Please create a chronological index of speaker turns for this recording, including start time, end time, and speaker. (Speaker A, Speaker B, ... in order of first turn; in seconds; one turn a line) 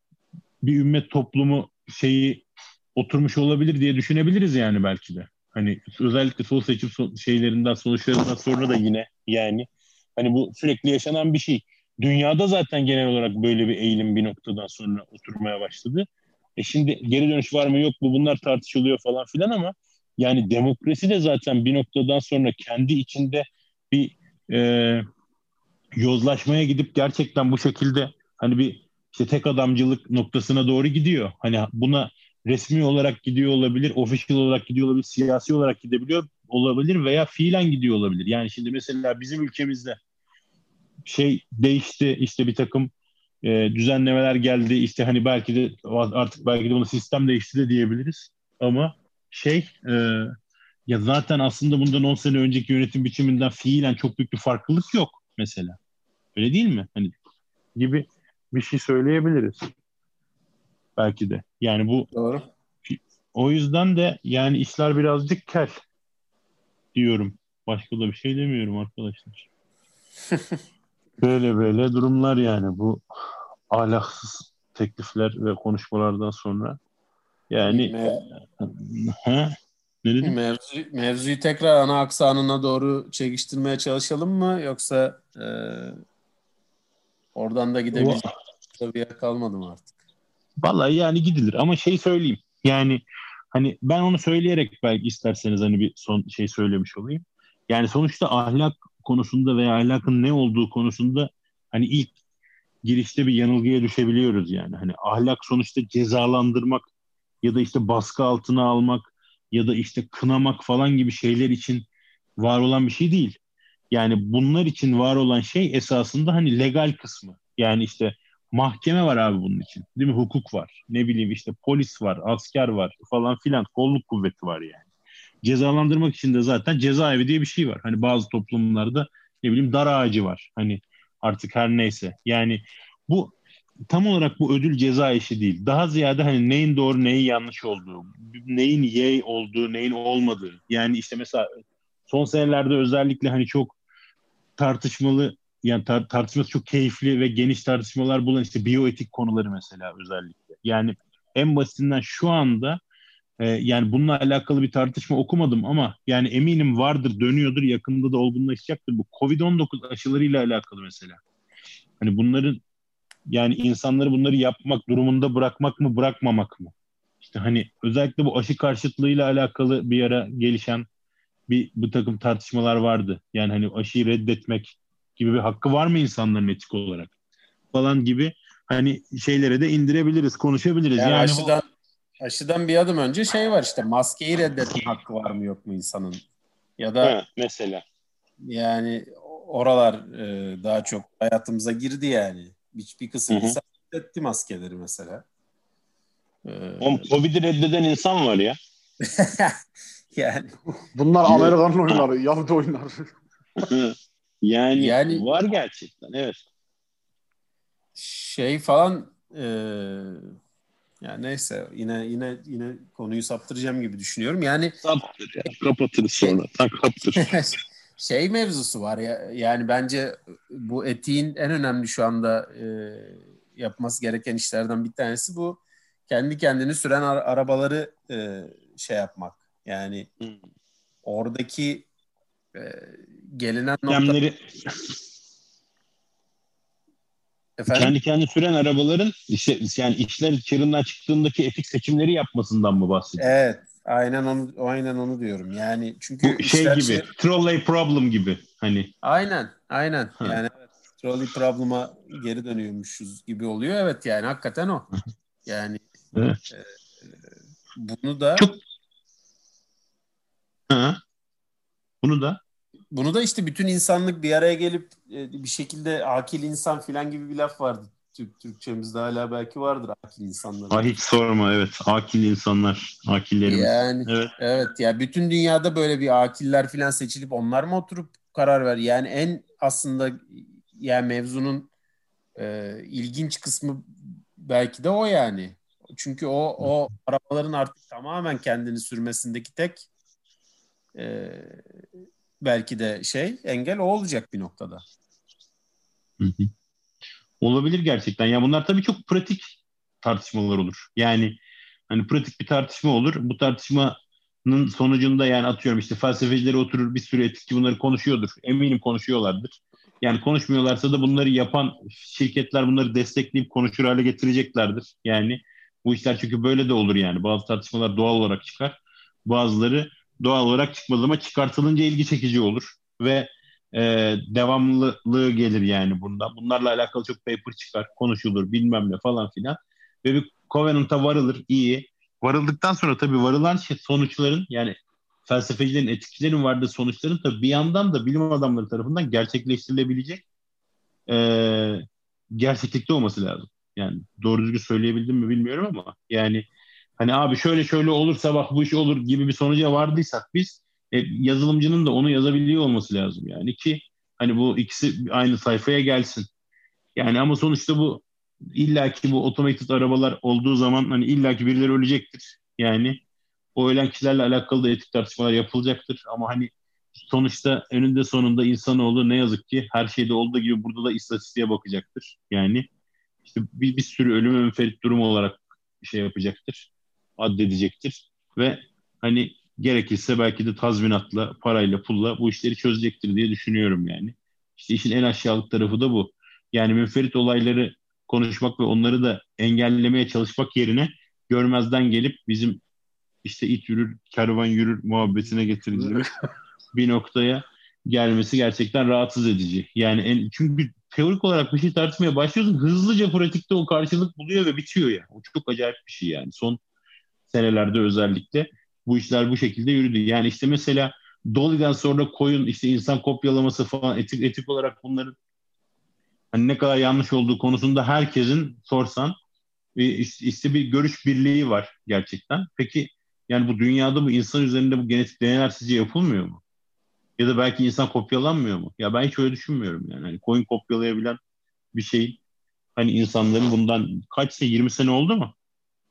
Speaker A: 0.6-16.1
Speaker A: 16.6-25.1
Speaker A: 26.0-40.0
Speaker A: 41.0-42.9
Speaker A: 43.4-50.3
Speaker A: 50.9-55.8
Speaker A: 56.4-57.1
Speaker A: 57.8-59.7
Speaker A: 61.0-62.1
Speaker B: 62.1-62.4
Speaker A: 62.9-65.8
Speaker A: 67.0-69.5
Speaker A: 71.2-73.0
Speaker A: 73.7-76.8
Speaker A: 77.5-80.4
Speaker B: 77.7-78.2
Speaker B: 80.2-86.0
Speaker B: 87.3-88.2
Speaker A: 87.9-88.3
Speaker B: 88.8-89.9
Speaker A: 90.6-93.0
Speaker A: 93.5-102.1
Speaker A: 102.8-106.9
Speaker A: 107.4-111.9
Speaker A: 112.4-113.4
Speaker A: 113.9-124.9
Speaker A: 125.4-133.3
Speaker A: 133.9-141.4
Speaker A: 142.1-143.8
Speaker A: 144.6-152.8
Speaker A: 153.4-161.2
Speaker A: 162.0-162.6
Speaker A: 163.3-170.9
Speaker A: 171.5-177.1
Speaker A: 177.7-181.5
Speaker B: 181.0-181.7
Speaker B: 182.2-186.2
Speaker B: 186.8-187.2
Speaker A: 187.0-187.8
Speaker B: 188.4-195.2
Speaker A: 193.3-193.6
Speaker B: 196.4-197.1
Speaker A: 196.8-198.6
Speaker B: 199.1-199.6
Speaker B: 200.1-200.5
Speaker C: 200.9-203.0
Speaker A: 201.3-202.1
Speaker A: 203.6-206.4
Speaker B: 204.8-205.3
Speaker B: 208.0-210.2
Speaker B: 211.0-214.8
Speaker A: 214.8-217.3
Speaker B: 217.2-230.1
Speaker B: 231.1-231.9
Speaker B: 232.6-234.2
Speaker A: 233.9-234.9
Speaker B: 237.6-237.9
Speaker A: 237.7-243.2
Speaker B: 243.2-247.1
Speaker A: 246.2-248.9
Speaker B: 249.0-254.9
Speaker B: 255.5-255.8
Speaker A: 256.1-256.4
Speaker B: 257.8-258.5
Speaker A: 260.7-261.0
Speaker A: 262.0-262.4
Speaker B: 262.9-270.9
Speaker A: 270.7-274.3
Speaker B: 273.5-281.7
Speaker B: 282.4-289.9
Speaker B: 290.9-291.8
Speaker B: 292.4-294.8
Speaker A: 296.2-296.5
Speaker A: 297.4-301.4
Speaker A: 301.9-334.8
Speaker A: 335.3-340.2
Speaker A: 341.1-346.5
Speaker A: 347.0-356.3
Speaker A: 357.0-363.0
Speaker A: 363.6-372.7
Speaker A: 373.2-392.6
Speaker A: 393.2-396.1
Speaker C: 395.0-396.1
Speaker A: 396.7-406.6
Speaker A: 407.3-415.1
Speaker A: 416.3-419.2
Speaker A: 419.8-426.4
Speaker A: 427.2-431.2
Speaker A: 431.7-432.2
Speaker A: 432.8-435.3